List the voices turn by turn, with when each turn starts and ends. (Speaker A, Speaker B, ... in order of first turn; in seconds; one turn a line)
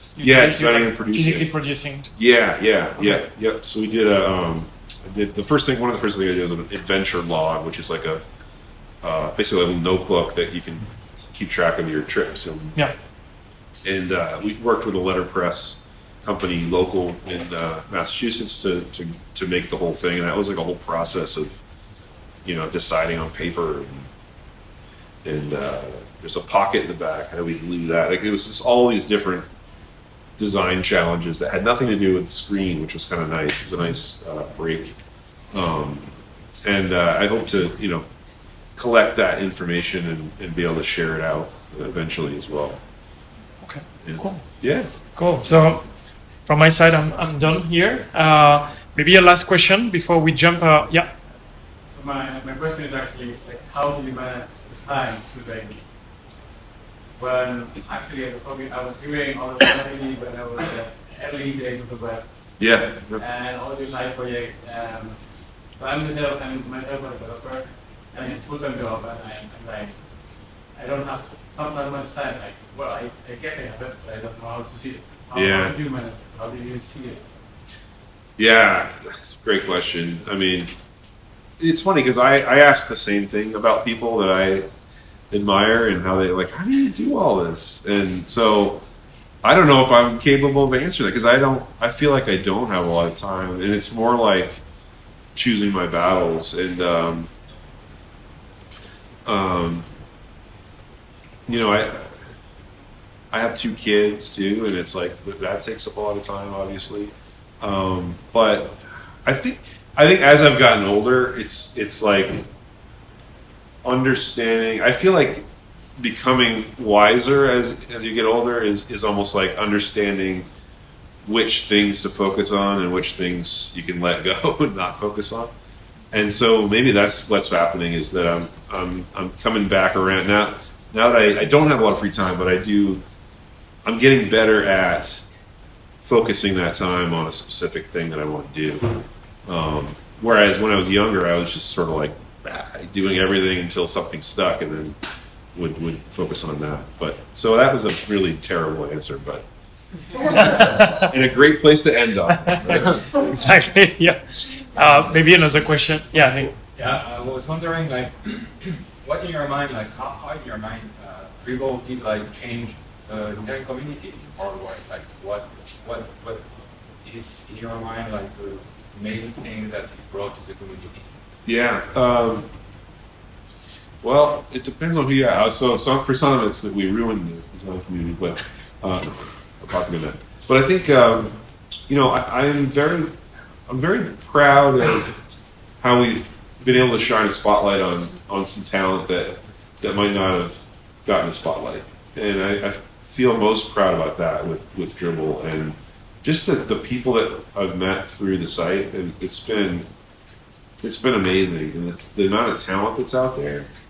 Speaker A: 0.2-2.1
Speaker B: 0.2-1.5
Speaker B: 2.1-8.2
Speaker B: 9.0-12.8
Speaker B: 13.8-21.6
Speaker B: 22.4-24.1
Speaker B: 25.2-29.5
Speaker B: 30.4-35.0
Speaker B: 35.5-38.0
Speaker B: 38.8-42.8
Speaker A: 43.6-44.5
Speaker B: 44.0-44.9
Speaker A: 45.1-45.9
Speaker A: 46.4-51.1
Speaker C: 51.8-56.2
Speaker C: 57.2-77.5
Speaker B: 62.6-63.2
Speaker B: 75.3-75.8
Speaker B: 78.4-80.7
Speaker B: 81.6-84.7
Speaker B: 85.3-88.8
Speaker B: 89.4-94.6
Speaker B: 95.3-97.3
Speaker B: 99.2-99.9
Speaker B: 101.5-102.2
Speaker B: 103.3-112.5
Speaker B: 113.8-115.5
Speaker B: 116.0-120.5
Speaker B: 121.2-125.5
Speaker B: 126.1-133.0
Speaker B: 133.8-135.2
Speaker B: 136.0-138.9
Speaker B: 139.5-145.0
Speaker B: 145.5-149.5
Speaker B: 150.1-153.2
Speaker A: 150.3-151.1
Speaker A: 152.3-156.5
Speaker D: 156.8-171.1
Speaker B: 171.5-172.5
Speaker B: 174.0-185.2
Speaker B: 185.8-199.9
Speaker B: 200.8-203.7